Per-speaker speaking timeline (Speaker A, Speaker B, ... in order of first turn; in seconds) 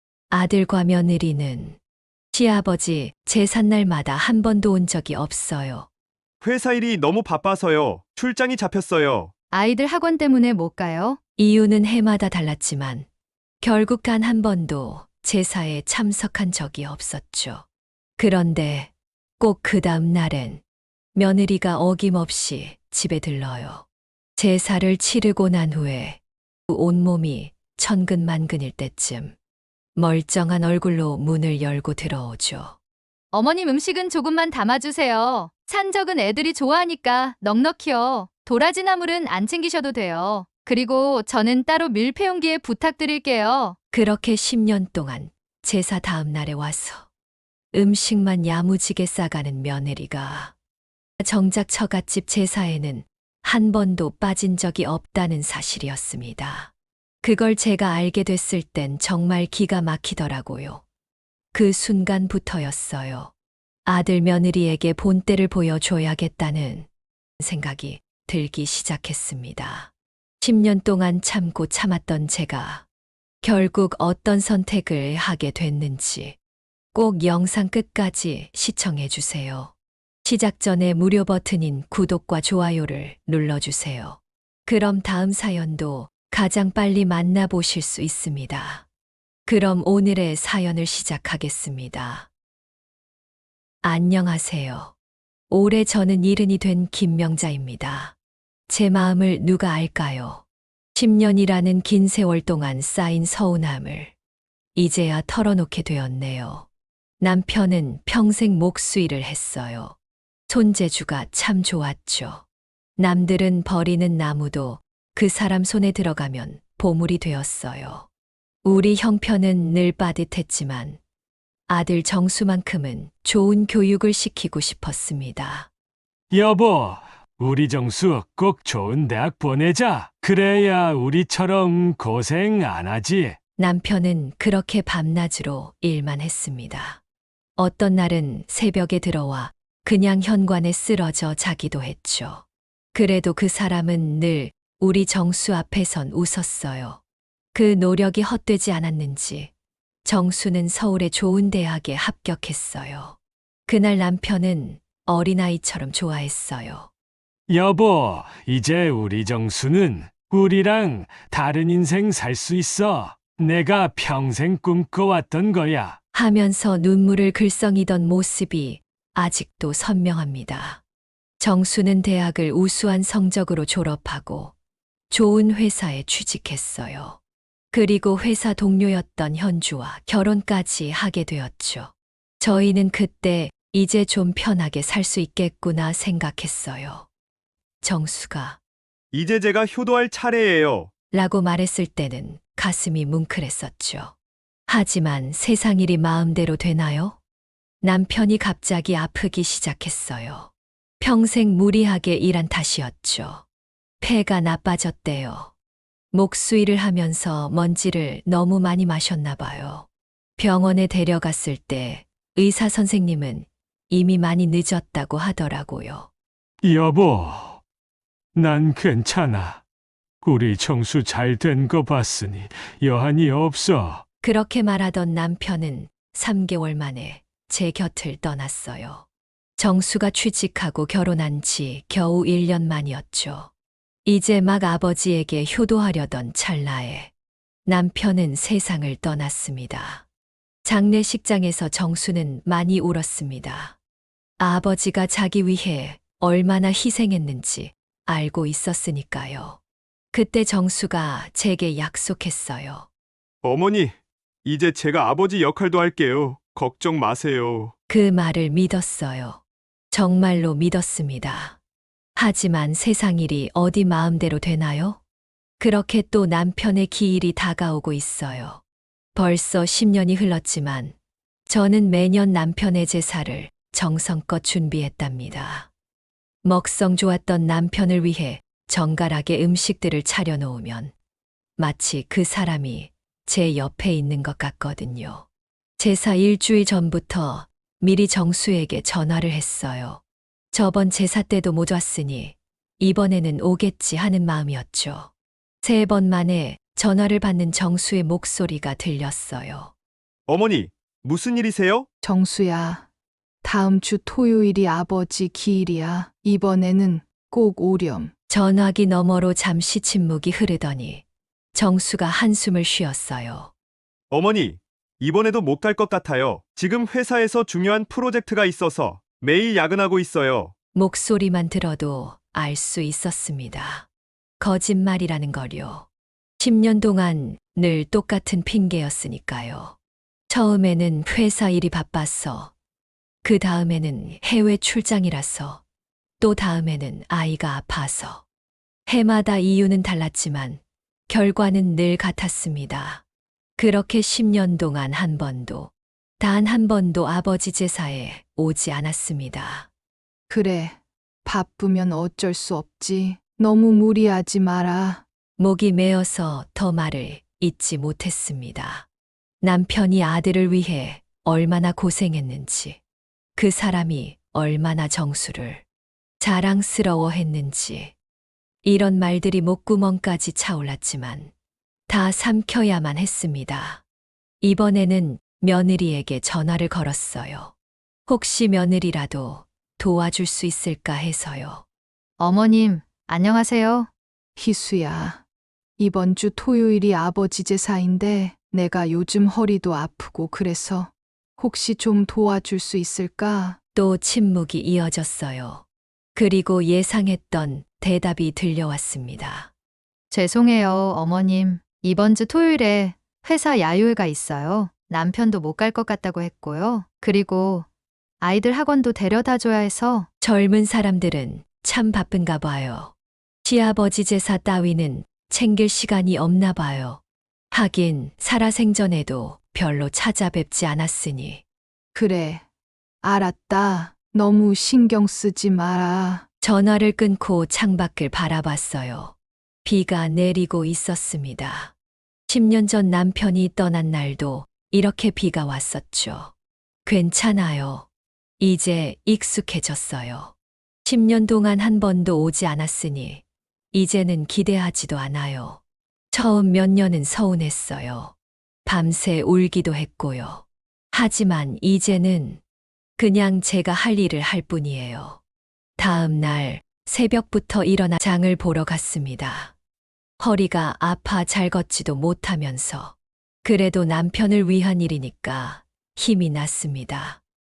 Speaker A: 0.3-1.8, 2.3-5.9, 11.4-13.1, 13.6-17.6, 18.2-20.6, 21.1-23.8, 24.4-29.3, 29.9-32.8, 43.9-47.1, 47.7-50.5, 51.2-56.7, 57.2-60.8, 61.5-63.3, 63.9-66.9, 67.4-69.9, 70.4-72.8, 73.4-76.3, 76.9-79.7, 80.2-88.8, 89.5-92.3, 93.8-94.9, 95.5-98.1, 98.7-100.4, 100.9-104.1, 104.7-106.7, 107.2-110.0, 110.5-112.4, 113.0-118.1, 118.6-121.0, 121.7-125.7, 133.6-137.0, 137.6-147.0, 147.5-149.5, 150.0-156.9, 166.1-170.8, 171.4-174.5, 175.1-177.2, 177.7-187.1, 187.8-188.6, 191.1-194.1, 194.7-197.2, 197.8-203.4, 204.0-205.5, 206.1-216.1, 224.2-229.1, 229.6-233.5, 234.0-237.1, 237.7-240.0, 240.6-243.8, 244.4-249.6, 250.1-252.9, 257.9-259.4, 259.9-261.6, 262.1-265.0, 265.6-268.6, 269.1-270.9, 271.5-275.7, 276.4-280.9, 281.6-285.2, 285.8-290.0, 290.5-295.1, 295.6-299.7, 308.3-313.5, 320.7-323.9, 324.4-325.9, 326.4-329.8, 330.3-332.5, 333.2-335.6, 336.2-338.2, 338.9-343.0, 343.6-349.7, 355.4-358.9, 359.4-362.8, 363.4-365.6, 366.2-367.9, 368.6-371.3, 371.9-373.8, 374.4-377.5, 378.1-381.6, 393.8-395.6, 396.1-399.5, 410.2-412.9, 413.4-417.0, 417.5-421.4, 426.4-431.7, 432.3-436.3, 436.9-437.9, 438.4-440.3, 440.8-445.6, 446.1-448.1, 448.6-452.4, 453.0-455.2, 455.8-459.5, 460.2-467.2
Speaker B: 6.4-9.3, 189.1-190.9, 253.4-257.7, 300.3-301.9, 314.1-320.5
Speaker C: 9.5-11.2, 33.3-43.8, 382.2-383.9, 400.1-407.6, 408.2-410.1
Speaker D: 126.3-133.4, 157.5-166.0, 216.6-217.6, 218.3-219.6, 220.2-224.0
Speaker E: 302.0-302.8, 303.4-308.1, 350.3-355.0, 384.4-385.2, 385.8-393.6, 421.9-422.4, 423.0-426.2